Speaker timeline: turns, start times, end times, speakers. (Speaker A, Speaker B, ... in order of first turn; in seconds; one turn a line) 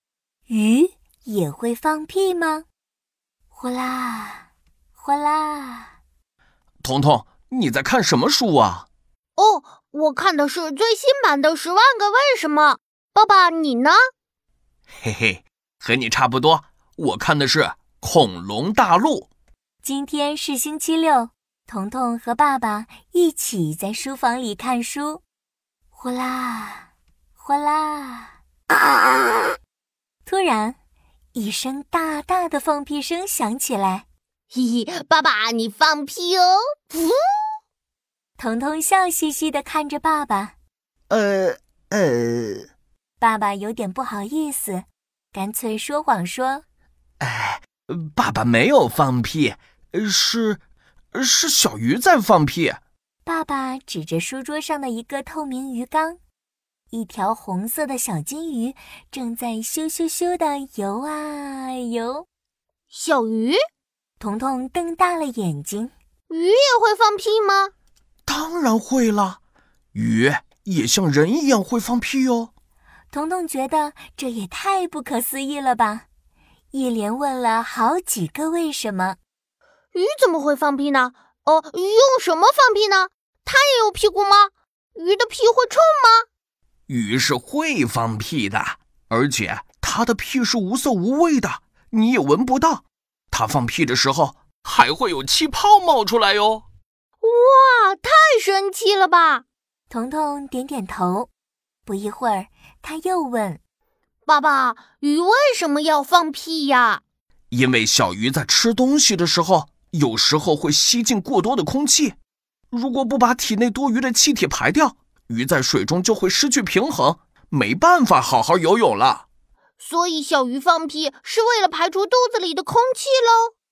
Speaker A: 0.5-2.6
Speaker A: 3.5-5.9
Speaker B: 6.8-8.9
Speaker C: 9.4-14.0
Speaker B: 15.0-19.3
Speaker A: 19.8-25.2
Speaker A: 25.9-28.3
Speaker A: 30.2-30.8
Speaker A: 31.3-34.0
Speaker C: 34.5-37.1
Speaker A: 38.4-40.5
Speaker B: 41.1-42.7
Speaker A: 43.2-46.6
Speaker B: 47.2-50.6
Speaker B: 51.1-52.8
Speaker A: 53.2-56.2
Speaker A: 56.9-62.3
Speaker C: 62.9-63.6
Speaker A: 64.2-65.9
Speaker C: 66.3-67.7
Speaker B: 68.2-69.4
Speaker B: 69.9-72.5
Speaker A: 73.1-76.0
Speaker A: 76.7-79.2
Speaker C: 79.9-86.2
Speaker B: 86.9-96.6
Speaker C: 97.2-99.4
Speaker A: 99.9-101.3
Speaker A: 101.8-103.6
Speaker C: 104.3-107.0
Speaker B: 107.5-112.2
Speaker B: 112.7-119.2
Speaker C: 119.8-123.5